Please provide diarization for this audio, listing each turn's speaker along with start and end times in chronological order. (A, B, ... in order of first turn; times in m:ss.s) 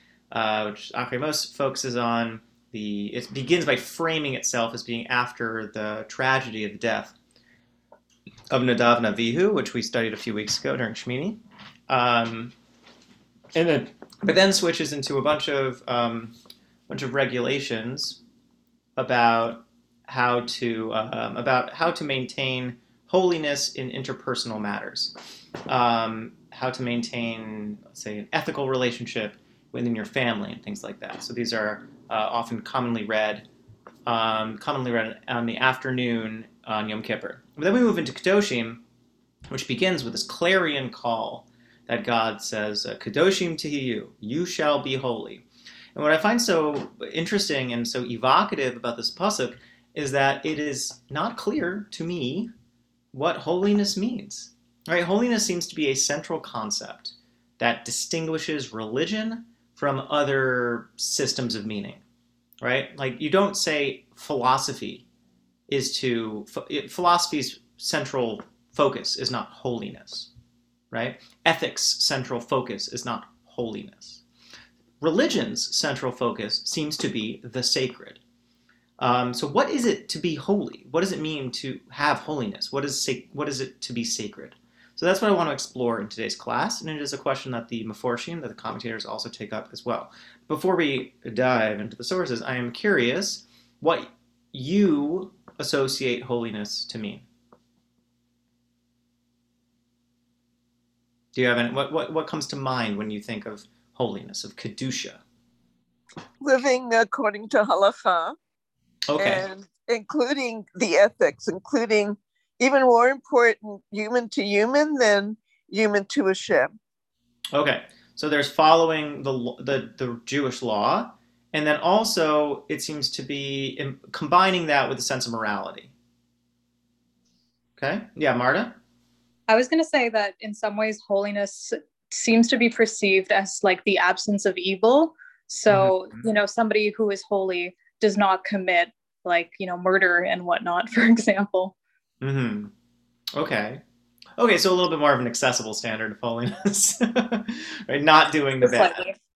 0:00.3-0:07.1 A
0:08.5-0:12.5 A
0:13.5-0:16.3 A
0:16.9-0:18.2 A
0:19.0-0:25.1 A
0:25.7-0:33.4 A
0:34.0-0:38.8 A
0:39.5-0:45.4 A
0:45.9-0:52.5 A
0:53.1-1:02.0 A
1:02.6-1:05.0 A
1:05.7-1:10.3 A
1:10.9-1:14.2 A
1:15.0-1:18.2 A
1:19.0-1:37.2 A
1:41.3-1:45.2 A
1:46.4-1:48.4 B
1:49.1-1:49.4 A
1:49.2-1:56.8 B
1:57.5-2:05.9 A
2:07.8-2:08.8 A
2:09.5-2:21.7 C
2:15.7-2:16.2 A
2:22.2-2:22.7 A
2:23.4-2:23.8 A
2:24.4-2:29.0 A
2:28.6-2:29.1 C